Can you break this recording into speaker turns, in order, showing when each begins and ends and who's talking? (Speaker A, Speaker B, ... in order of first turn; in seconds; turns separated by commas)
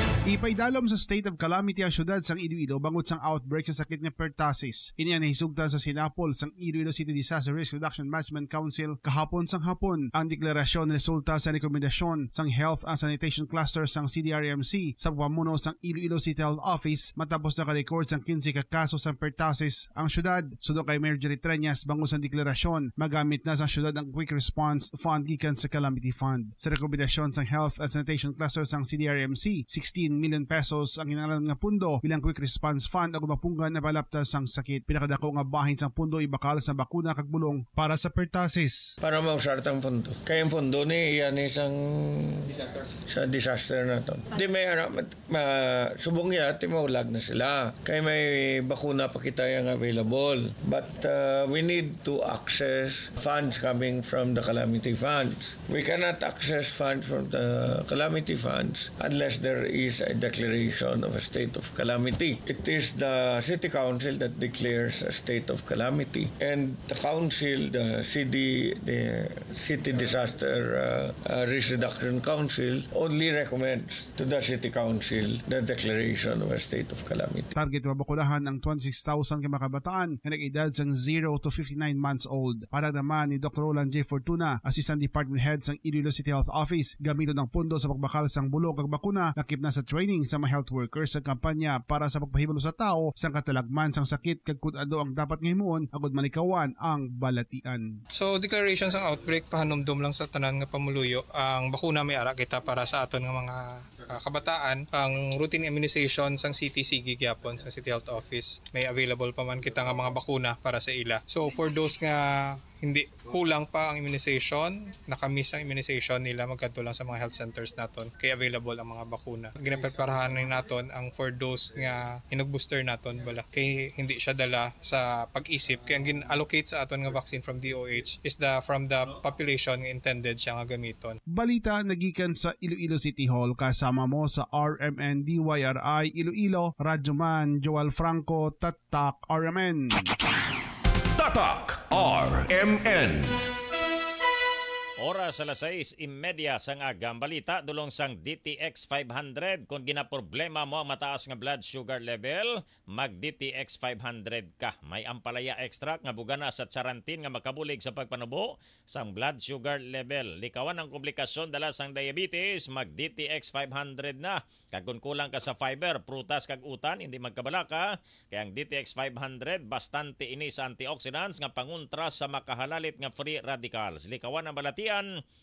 Speaker A: 0.3-38.9, Speaker B: 39.0-77.5, Speaker A: 77.5-98.0, Speaker C: 98.1-131.2, Speaker A: 131.3-140.1, Speaker D: 141.2-143.4, Speaker E: 145.0-175.1